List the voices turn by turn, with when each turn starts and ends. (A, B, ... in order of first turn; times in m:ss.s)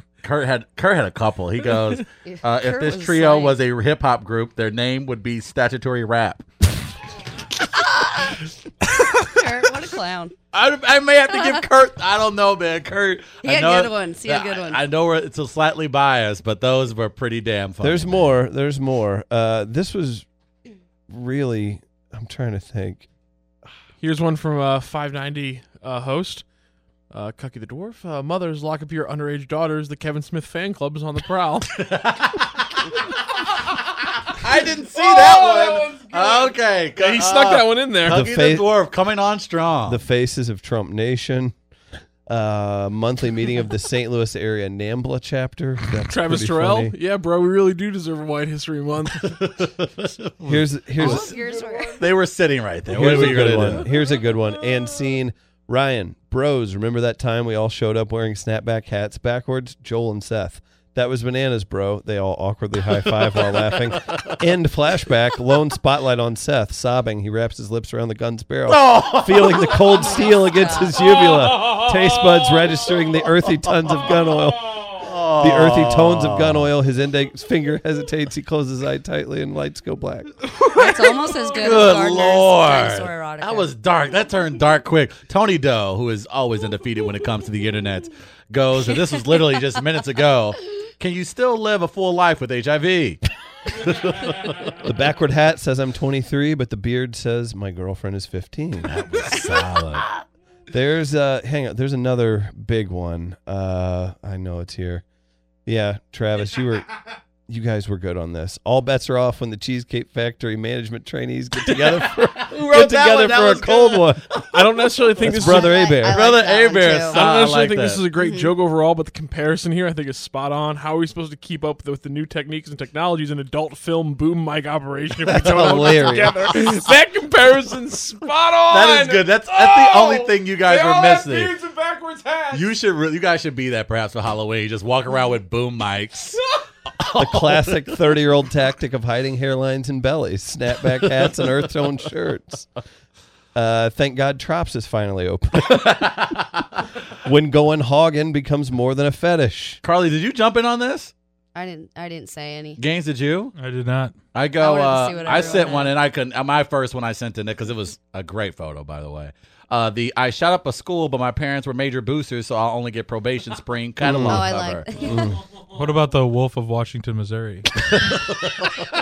0:00.2-0:06.4 A
0:02.2-0:03.6 B
0:08.0-0:08.4 B
0:09.2-0:10.3 B
0:10.5-0:18.3 A
0:13.4-0:14.8 B
0:17.8-0:20.2 C
0:21.1-0:23.1 C
0:24.0-0:26.4 D
0:27.1-0:31.8 D
0:31.8-0:32.9 A
0:34.3-0:40.0 A
0:35.0-0:38.2 D
0:38.1-0:38.7 C
0:39.9-0:41.5 C
0:42.3-0:47.0 C
0:46.1-0:49.7 D
0:49.2-0:50.3 A
0:50.4-0:52.0 D
0:50.4-0:51.3 C
0:51.0-0:51.3 A
0:51.0-0:52.0 B
0:52.0-0:53.9 A
0:52.9-1:14.8 C
0:53.0-0:54.8 D
1:03.4-1:04.3 A
1:08.7-1:09.9 A
1:09.8-1:11.0 B
1:14.9-1:16.7 A
1:15.4-1:20.4 C
1:20.6-1:33.2 A
1:20.7-1:23.7 B
1:33.8-1:34.7 A
1:34.8-1:39.1 C
1:38.9-1:40.2 A
1:40.7-1:45.0 C
1:45.7-1:46.9 C
1:47.5-1:54.4 C
1:52.4-1:54.5 A
1:54.5-1:56.0 D
1:55.2-1:56.2 C
1:55.4-1:57.2 B
1:56.1-1:58.0 A
1:57.1-2:12.6 D
1:58.2-1:58.5 B
2:05.3-2:06.5 C
2:08.7-2:11.6 A
2:12.5-2:16.4 A
2:17.0-2:18.0 A
2:17.2-2:22.7 C
2:23.5-2:26.3 C
2:25.6-2:26.6 A
2:27.2-2:29.8 C
2:29.8-2:31.1 A
2:31.6-2:32.8 B
2:32.8-2:33.6 A
2:33.6-2:34.2 E
2:34.4-2:44.9 A
2:34.6-2:36.0 B
2:44.0-2:45.4 C
2:44.3-2:45.3 B
2:45.7-2:47.9 E